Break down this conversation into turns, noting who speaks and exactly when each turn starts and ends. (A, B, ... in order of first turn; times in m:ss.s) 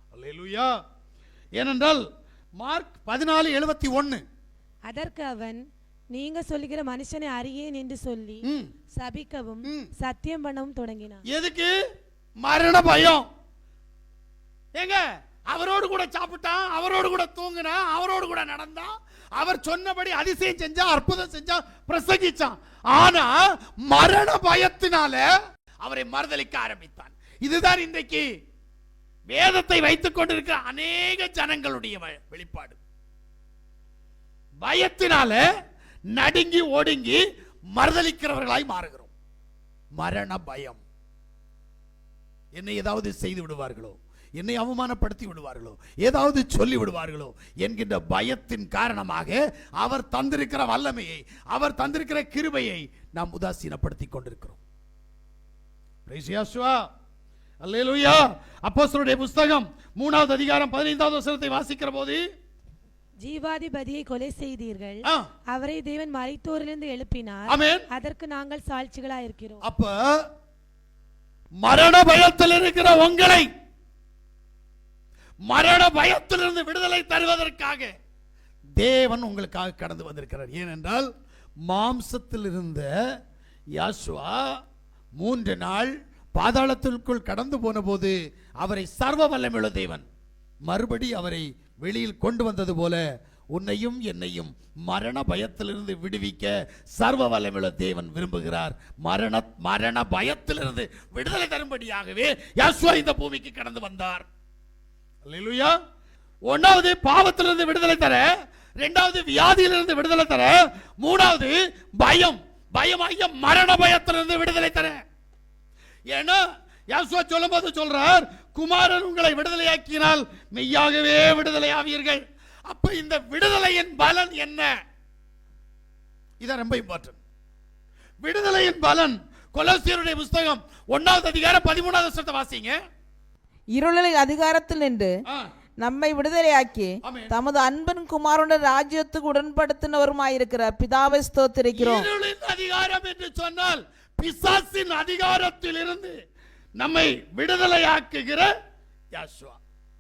0:00.1-0:00.7 A
0:01.6-0:02.0 A
0:02.6-0:04.2 A
0:04.9-0:05.6 B
0:06.1-0:08.4 B
0:08.4-0:08.7 A
0:09.0-0:11.2 B
0:09.6-0:09.9 A
0:11.3-0:11.7 A
0:12.4-0:13.3 A
0:14.8-0:25.3 A
0:25.8-0:28.3 A
0:29.3-0:32.8 A
0:34.6-0:35.4 A
0:36.1-0:37.2 A
0:37.7-0:39.1 A
0:40.0-0:40.8 A
0:42.5-0:54.6 A
0:56.1-0:56.8 A
0:57.6-1:02.2 A
1:03.2-1:09.6 B
1:07.5-1:07.9 A
1:09.6-1:10.3 A
1:11.6-1:13.5 A
1:15.5-1:17.9 A
1:18.8-1:21.1 A
1:21.7-1:22.9 A
1:23.8-1:24.4 A
1:25.2-1:30.1 A
1:30.7-1:44.3 A
1:45.3-1:45.8 A
1:46.5-1:55.0 A
1:56.1-2:04.7 A
2:06.4-2:07.2 A
2:08.2-2:12.8 A
2:13.7-2:15.2 C
2:15.8-2:22.1 C
2:17.0-2:17.4 A
2:21.7-2:26.2 A
2:26.8-2:28.5 A
2:29.1-2:29.6 A